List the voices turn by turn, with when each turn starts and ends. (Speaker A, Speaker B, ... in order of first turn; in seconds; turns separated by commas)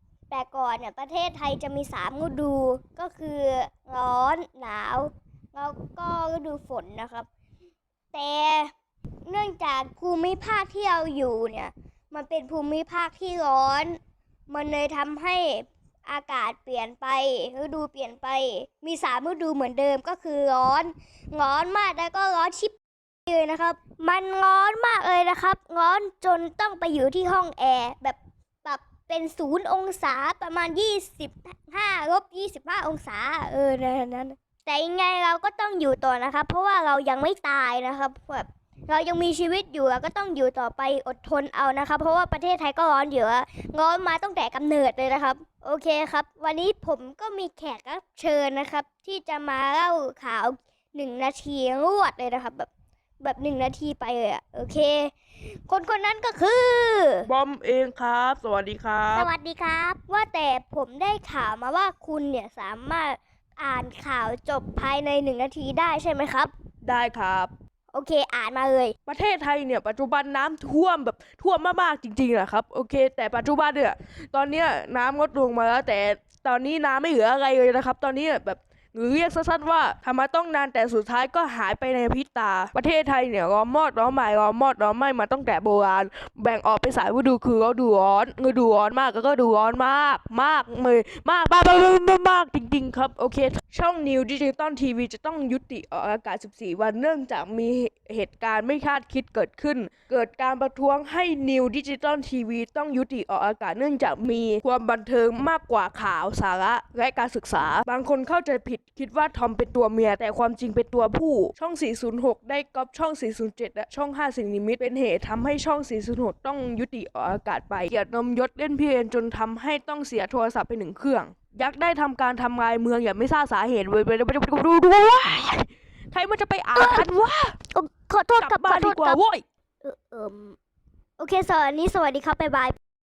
Speaker A: 0.3-7.3, Speaker A: 8.1-8.7, Speaker A: 9.2-14.0, Speaker A: 14.5-22.8, Speaker A: 23.3-52.7, Speaker A: 53.2-57.3, Speaker B: 57.2-59.3, Speaker A: 59.1-66.5, Speaker B: 66.8-67.5, Speaker A: 67.9-68.9, Speaker B: 69.1-127.5, Speaker A: 126.8-127.1, Speaker A: 127.7-129.2, Speaker B: 128.4-129.4, Speaker A: 129.8-130.6, Speaker A: 131.2-132.8